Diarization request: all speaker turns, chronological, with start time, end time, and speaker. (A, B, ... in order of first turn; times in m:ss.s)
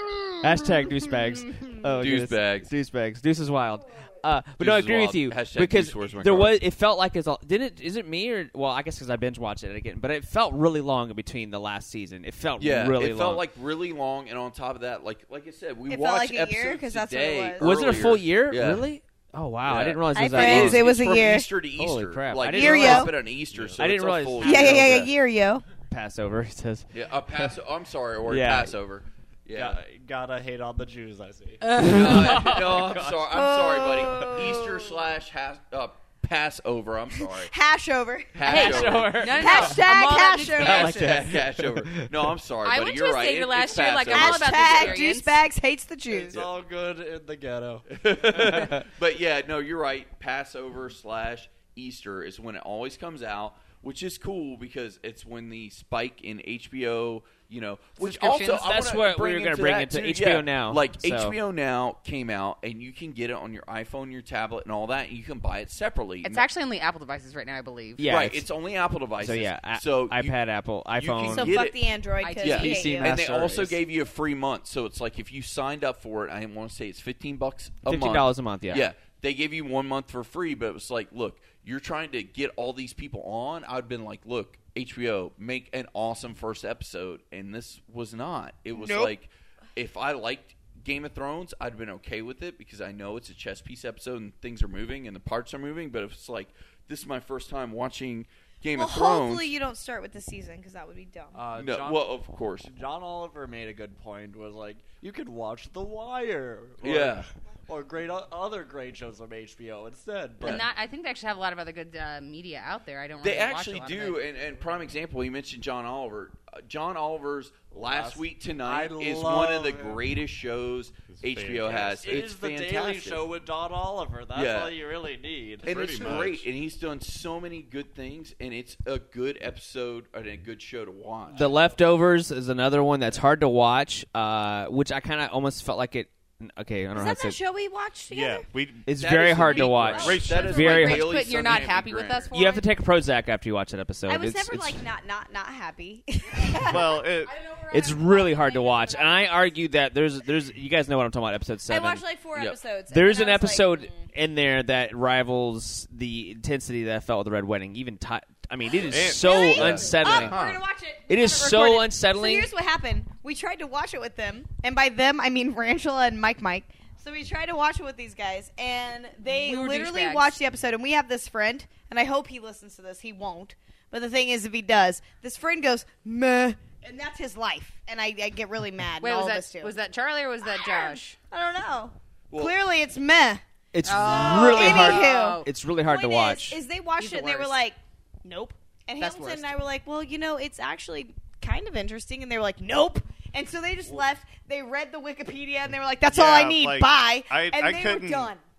0:00.4-0:13.4 A
0:02.0-0:02.7 B
0:04.6-0:06.6 B
0:12.6-0:18.8 B
0:15.9-0:17.7 C
0:17.6-0:20.9 A
0:19.6-0:25.1 B
0:20.1-0:21.5 C
0:21.8-0:25.1 A
0:22.5-0:23.2 C
0:24.4-0:25.6 C
0:25.9-0:27.5 A
0:26.9-0:29.8 B
0:28.2-0:28.7 A
0:29.5-0:33.1 D
0:31.6-0:32.5 E
0:31.7-0:37.5 B
0:31.9-0:33.0 A
0:33.3-0:35.0 C
0:37.1-0:38.6 C
0:38.3-0:39.4 B
0:38.4-0:39.8 A
0:38.4-0:41.3 E
0:38.6-0:39.1 D
0:39.2-0:41.0 C
0:40.6-0:45.0 B
0:40.6-0:42.3 A
0:42.6-0:45.4 E
0:44.1-0:46.4 C
0:46.1-0:48.7 D
0:48.0-1:06.4 B
0:48.5-0:48.8 A
0:58.0-1:01.4 A
1:06.2-1:08.1 E
1:08.0-1:08.4 A
1:08.0-1:10.4 B
1:09.2-1:11.6 A
1:11.0-1:11.8 B
1:11.3-1:13.2 C
1:12.2-1:12.9 E
1:12.4-1:39.5 B
1:12.6-1:13.8 A
1:17.8-1:18.9 A
1:28.7-1:29.1 C
1:38.7-1:41.4 C
1:41.3-1:42.1 D
1:41.5-1:42.7 B
1:42.6-1:50.6 D
1:46.8-1:47.2 B
1:50.4-1:54.2 E
1:53.2-2:03.3 B
1:57.8-2:00.0 D
2:01.1-2:02.1 F
2:01.6-2:06.3 D
2:04.3-2:04.8 B
2:05.6-2:06.4 F
2:05.6-2:11.5 B
2:11.3-2:17.4 A
2:16.9-2:18.5 C
2:18.1-2:18.9 F
2:18.8-2:21.2 A
2:18.9-2:22.3 B
2:19.5-2:20.5 F
2:20.0-2:22.7 E
2:20.2-2:20.6 C
2:22.3-2:24.8 A
2:24.1-2:27.0 C
2:26.5-2:29.6 E
2:26.6-2:27.3 F
2:27.7-2:32.0 A
2:31.7-2:34.0 C
2:32.9-2:40.4 A
2:38.8-2:39.9 F
2:39.2-2:59.7 C
2:39.5-2:40.6 B
2:41.1-2:42.5 A
2:49.3-2:50.3 E
2:59.0-3:01.2 E
3:00.4-3:18.4 C
3:02.3-3:02.5 B
3:03.7-3:06.6 A
3:03.8-3:05.4 E
3:07.0-3:07.6 E
3:09.0-3:09.5 E
3:16.1-3:18.3 F